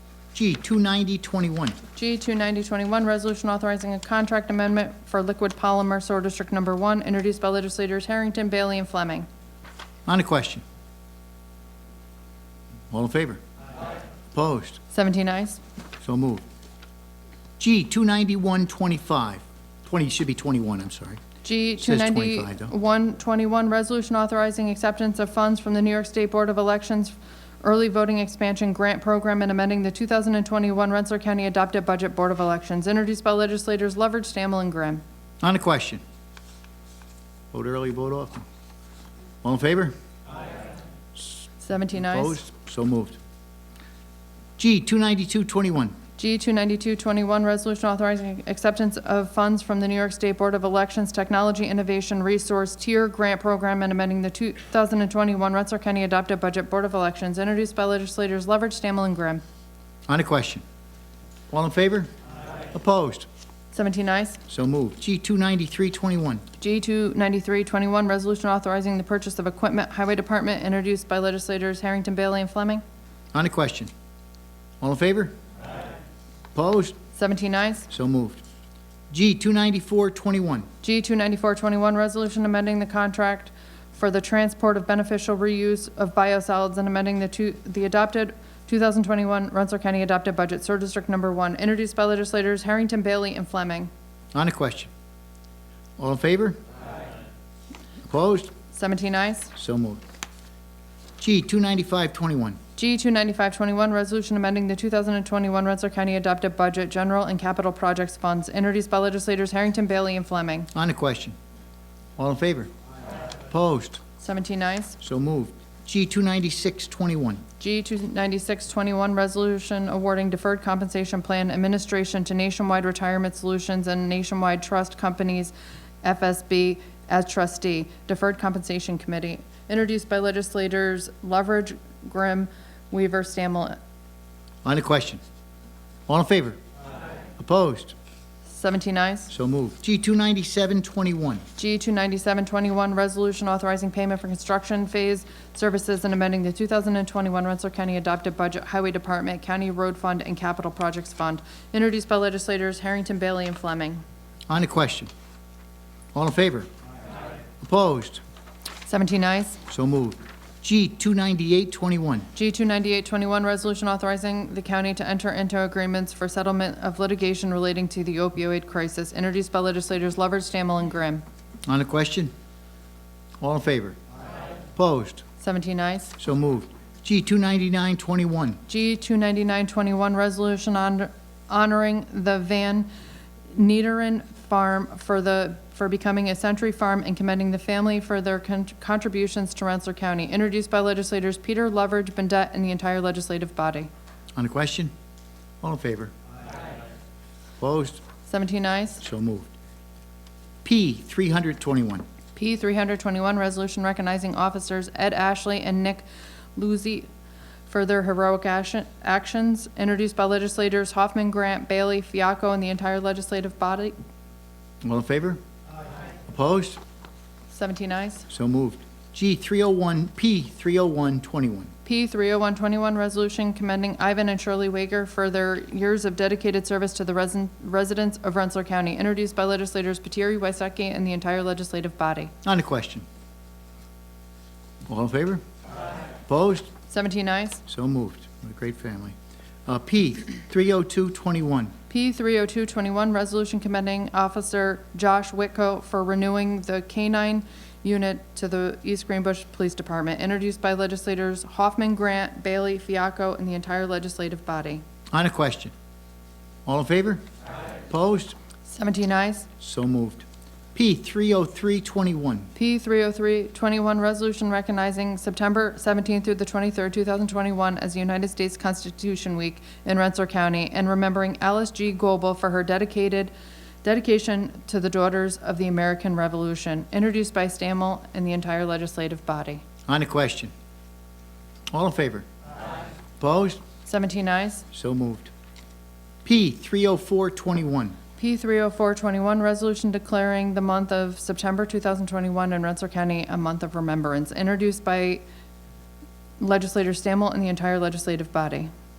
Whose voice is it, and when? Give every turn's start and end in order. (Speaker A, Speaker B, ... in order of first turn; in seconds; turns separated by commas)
Speaker A: 0.3-1.8, Speaker B: 2.0-9.3, Speaker A: 10.1-10.6, Speaker A: 12.9-13.4, Speaker A: 14.3-14.8, Speaker B: 14.9-15.6, Speaker A: 16.0-16.4, Speaker A: 17.6-21.2, Speaker B: 21.4-35.0, Speaker A: 21.8-22.7, Speaker A: 35.4-36.0, Speaker A: 37.5-38.5, Speaker A: 39.4-39.9, Speaker B: 41.6-42.4, Speaker A: 42.0-43.2, Speaker A: 44.6-46.0, Speaker B: 46.2-59.4, Speaker A: 60.1-60.6, Speaker A: 61.5-62.1, Speaker A: 62.7-63.3, Speaker B: 63.7-64.4, Speaker A: 64.5-66.4, Speaker B: 66.6-72.8, Speaker A: 73.3-73.9, Speaker A: 74.8-75.3, Speaker A: 76.5-77.0, Speaker B: 77.2-77.9, Speaker A: 77.9-78.4, Speaker A: 79.1-80.7, Speaker B: 80.8-93.9, Speaker A: 94.3-94.9, Speaker A: 96.0-96.6, Speaker A: 98.1-98.5, Speaker B: 98.7-99.5, Speaker A: 99.6-100.0, Speaker A: 101.2-102.6, Speaker B: 102.8-110.7, Speaker A: 110.8-111.4, Speaker A: 112.2-112.7, Speaker A: 113.5-114.0, Speaker B: 114.2-115.0, Speaker A: 115.0-117.4, Speaker B: 117.6-133.8, Speaker A: 134.6-135.2, Speaker A: 136.1-136.6, Speaker A: 137.4-138.0, Speaker B: 138.5-139.3, Speaker A: 139.3-141.4, Speaker B: 141.6-154.0, Speaker A: 154.5-155.1, Speaker A: 156.2-156.7, Speaker A: 157.6-158.2, Speaker B: 158.9-159.6, Speaker A: 159.7-162.3, Speaker B: 162.3-171.2, Speaker A: 171.7-172.3, Speaker A: 173.4-174.0, Speaker A: 174.8-175.2, Speaker B: 175.4-176.2, Speaker A: 176.2-178.6, Speaker B: 178.7-182.9, Speaker B: 183.5-193.9, Speaker A: 194.4-194.9, Speaker A: 195.6-196.1, Speaker A: 197.6-198.0, Speaker B: 198.3-199.0, Speaker A: 199.0-199.5, Speaker A: 200.6-202.1, Speaker B: 202.3-207.1, Speaker B: 207.7-214.0, Speaker A: 214.8-215.4, Speaker A: 216.3-216.8, Speaker B: 217.5-218.3, Speaker A: 218.3-221.7, Speaker B: 221.8-232.3, Speaker A: 232.4-233.1, Speaker A: 234.9-235.4, Speaker A: 236.3-236.7, Speaker B: 236.9-237.6, Speaker A: 237.7-241.7, Speaker B: 241.9-254.8, Speaker A: 255.1-255.7, Speaker A: 256.7-257.2, Speaker A: 257.9-258.4, Speaker B: 258.7-259.5, Speaker A: 259.6-262.5, Speaker B: 262.6-273.3, Speaker B: 273.8-279.6, Speaker A: 279.9-280.5, Speaker A: 281.7-282.3, Speaker A: 283.2-283.6, Speaker B: 283.9-284.7, Speaker A: 284.7-285.3, Speaker A: 286.2-288.0, Speaker B: 288.2-295.2, Speaker B: 296.4-298.7